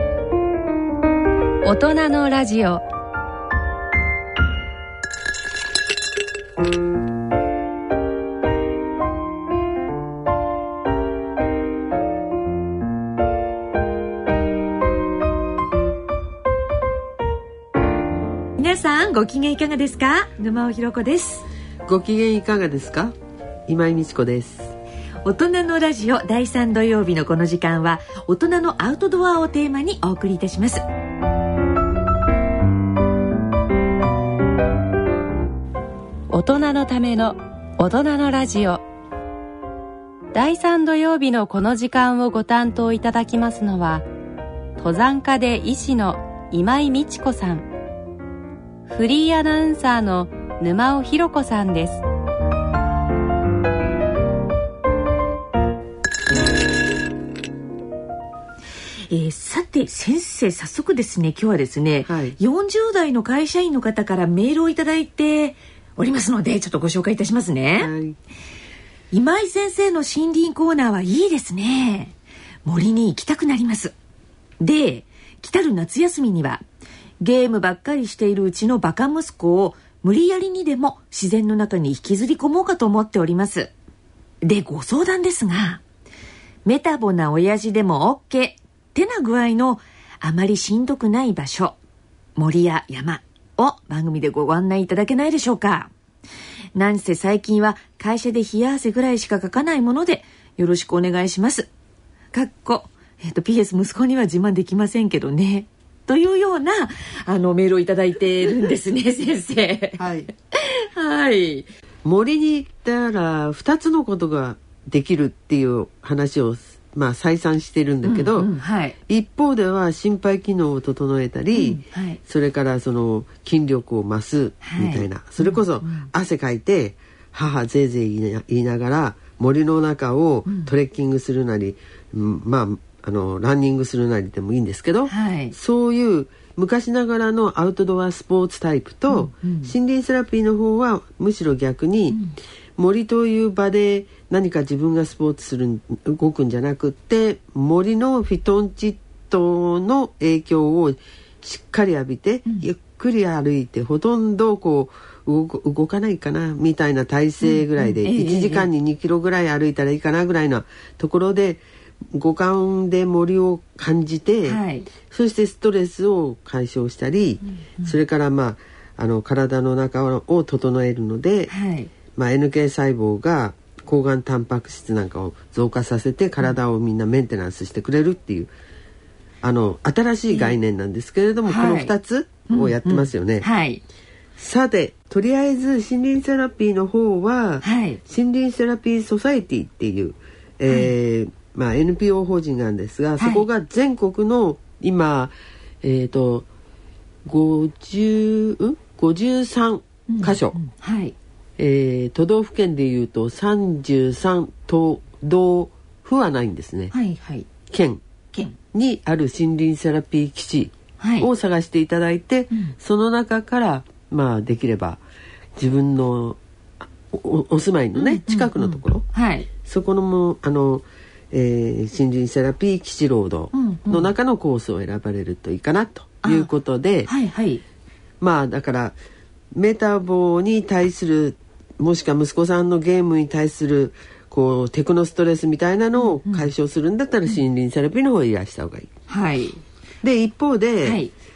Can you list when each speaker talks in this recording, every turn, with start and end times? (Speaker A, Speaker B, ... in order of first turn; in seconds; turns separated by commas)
Speaker A: 1.6-2.8, Speaker B: 18.6-21.5, Speaker C: 21.9-23.1, Speaker C: 23.7-24.8, Speaker B: 25.2-30.8, Speaker A: 36.3-38.8, Speaker A: 40.3-44.0, Speaker A: 44.8-47.7, Speaker A: 48.9-52.0, Speaker B: 59.1-67.9, Speaker C: 62.0-62.4, Speaker C: 67.8-68.2, Speaker B: 69.1-73.9, Speaker B: 74.6-76.6, Speaker B: 77.2-83.7, Speaker B: 84.4-85.8, Speaker B: 86.7-91.8, Speaker B: 92.4-95.9, Speaker B: 96.8-101.7, Speaker B: 102.3-111.7, Speaker C: 110.0-110.3, Speaker C: 112.0-118.5, Speaker B: 118.0-119.0, Speaker C: 119.1-142.2, Speaker B: 121.5-122.2, Speaker B: 124.6-126.1, Speaker B: 130.5-130.7, Speaker B: 135.1-135.6, Speaker B: 139.1-139.7, Speaker B: 142.1-142.3, Speaker C: 142.8-171.5, Speaker B: 157.4-158.7, Speaker B: 164.4-164.9, Speaker B: 167.6-168.0, Speaker B: 171.5-171.9, Speaker C: 172.2-178.5, Speaker C: 179.4-183.5, Speaker B: 180.3-180.6, Speaker B: 181.5-181.9, Speaker B: 182.5-183.8, Speaker C: 184.4-196.5, Speaker B: 187.6-188.0, Speaker B: 190.7-190.9, Speaker B: 193.2-193.5, Speaker C: 197.3-200.6, Speaker B: 200.1-201.1, Speaker C: 201.6-206.9, Speaker B: 206.9-207.5, Speaker C: 207.7-208.0, Speaker C: 208.7-215.0, Speaker B: 211.0-211.3, Speaker C: 215.6-219.0, Speaker B: 217.9-219.5, Speaker C: 219.6-227.1, Speaker B: 223.5-224.1, Speaker B: 226.2-226.5, Speaker B: 227.1-227.6, Speaker C: 228.2-229.0, Speaker C: 229.5-238.9, Speaker B: 235.9-236.5, Speaker B: 239.1-239.6, Speaker C: 240.0-241.0, Speaker B: 240.8-241.1